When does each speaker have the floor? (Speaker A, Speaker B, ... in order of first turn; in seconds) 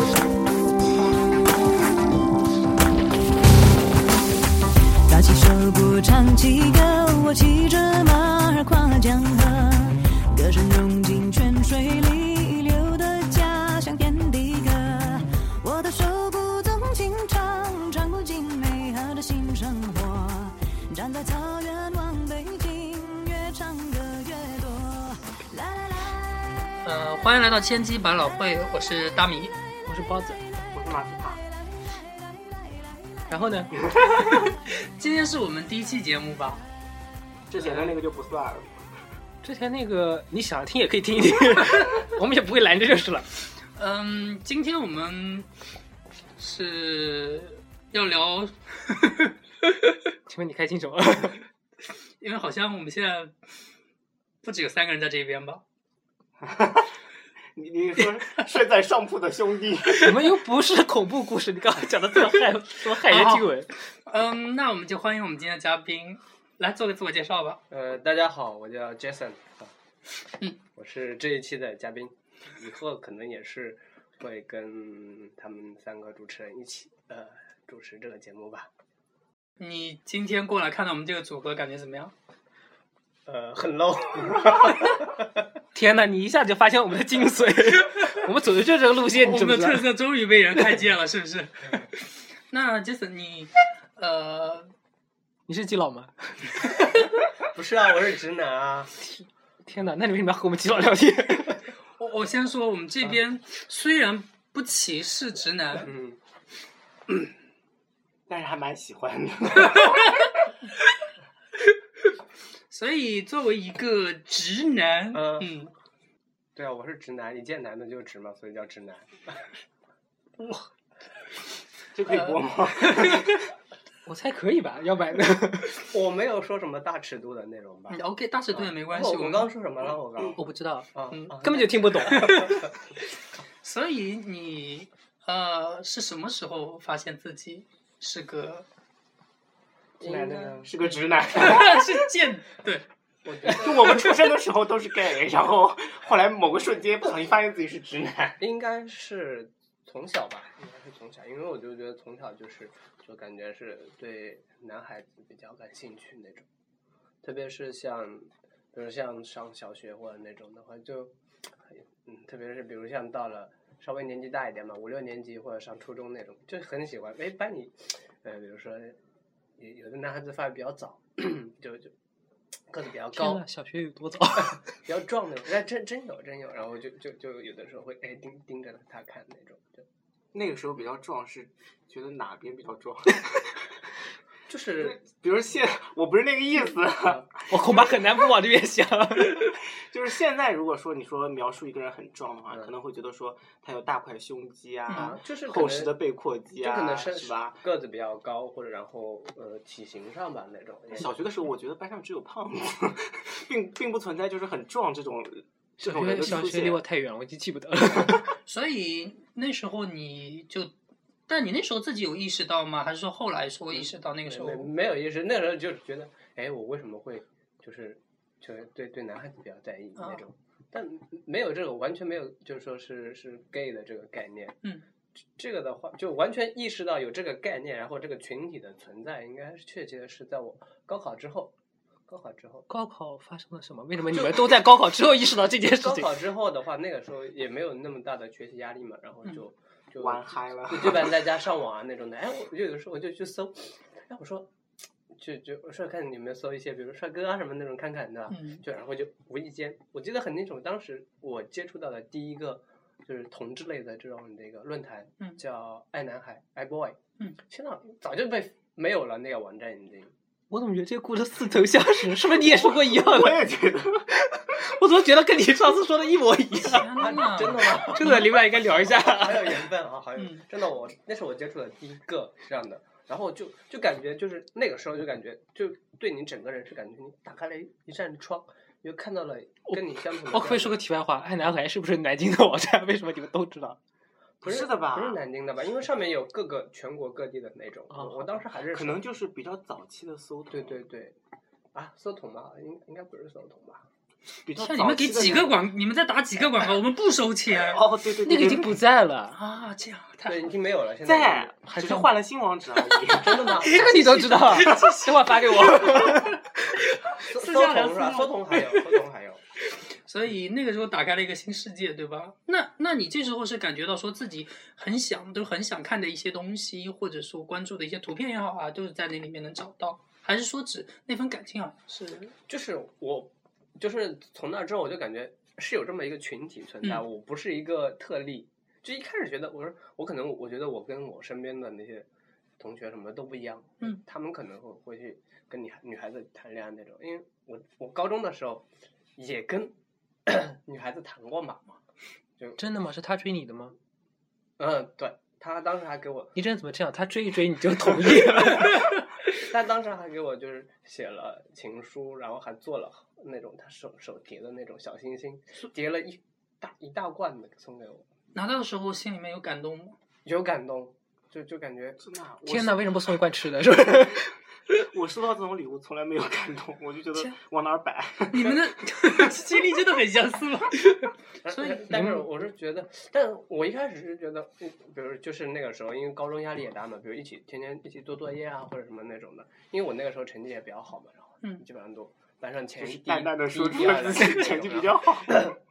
Speaker A: 5.1-26.4
Speaker B: 26.8-29.6, 34.7-36.6, 37.6-38.0, 43.8-45.5, 46.4-49.3, 52.2-53.3, 54.4-55.6, 58.0-58.4, 63.1-63.5, 64.1-67.6, 79.6-82.1, 89.1-94.7, 102.0-105.9, 112.7-115.7, 122.1-123.4, 127.9-129.5, 132.1-132.6, 133.6-138.7, 141.3-142.9, 194.9-195.2, 208.4-210.7, 211.3-214.7, 220.0-220.2, 248.3-248.6, 266.7-268.3, 270.2-270.4, 294.6-297.8, 299.4-300.5, 302.9-308.9, 310.1-322.4, 358.3-360.0, 368.3-372.2
Speaker C: 29.9-30.4, 33.3-33.8, 39.4-43.3, 50.3-51.4, 60.0-63.8, 85.7-89.9, 90.5-90.8, 95.5-97.0, 99.0-101.6, 124.1-125.8, 130.4-132.6, 140.0-140.7, 173.1-174.7, 187.5-189.6, 205.8-208.4, 232.7-236.1, 260.5-263.5, 264.1-266.9, 267.6-269.7, 280.3-283.8, 298.2-299.4, 301.7-302.2, 303.6-306.4, 342.6-343.8, 346.4-348.9, 362.5-364.3, 371.9-372.2
Speaker D: 30.7-31.4, 37.5-38.8, 56.4-56.9, 57.5-60.1, 108.3-110.2, 121.9-123.4, 140.6-141.8, 143.5-148.4, 180.3-183.6, 184.8-187.9, 189.4-197.6, 201.0-206.8, 240.0-241.2, 262.4-264.1, 284.4-285.2, 288.7-290.8, 294.4-295.6, 297.6-298.8, 301.1-303.6, 362.0-362.9, 364.7-368.7, 382.8-385.3
Speaker E: 67.7-69.7, 70.8-78.7, 83.3-85.2, 97.5-98.9, 105.8-106.2, 115.1-115.5, 116.6-119.5, 125.8-128.0, 128.5-130.4, 130.9-132.7, 140.0-140.7, 143.2-144.0, 148.4-156.5, 157.2-161.1, 161.7-169.0, 169.6-171.9, 172.7-173.4, 174.7-179.8, 184.5-185.0, 194.9-196.0, 196.6-201.1, 213.7-224.6, 225.4-231.5, 232.1-232.7, 234.1-234.5, 235.8-244.5, 245.1-260.1, 266.9-268.2, 269.0-280.8, 284.4-289.0, 290.5-291.2, 291.7-293.9, 300.2-301.5, 303.2-304.2, 307.2-309.4, 322.5-332.1, 332.6-338.7, 339.2-339.8, 340.3-341.8, 344.6-346.4, 349.4-358.1, 360.2-362.0, 371.4-385.6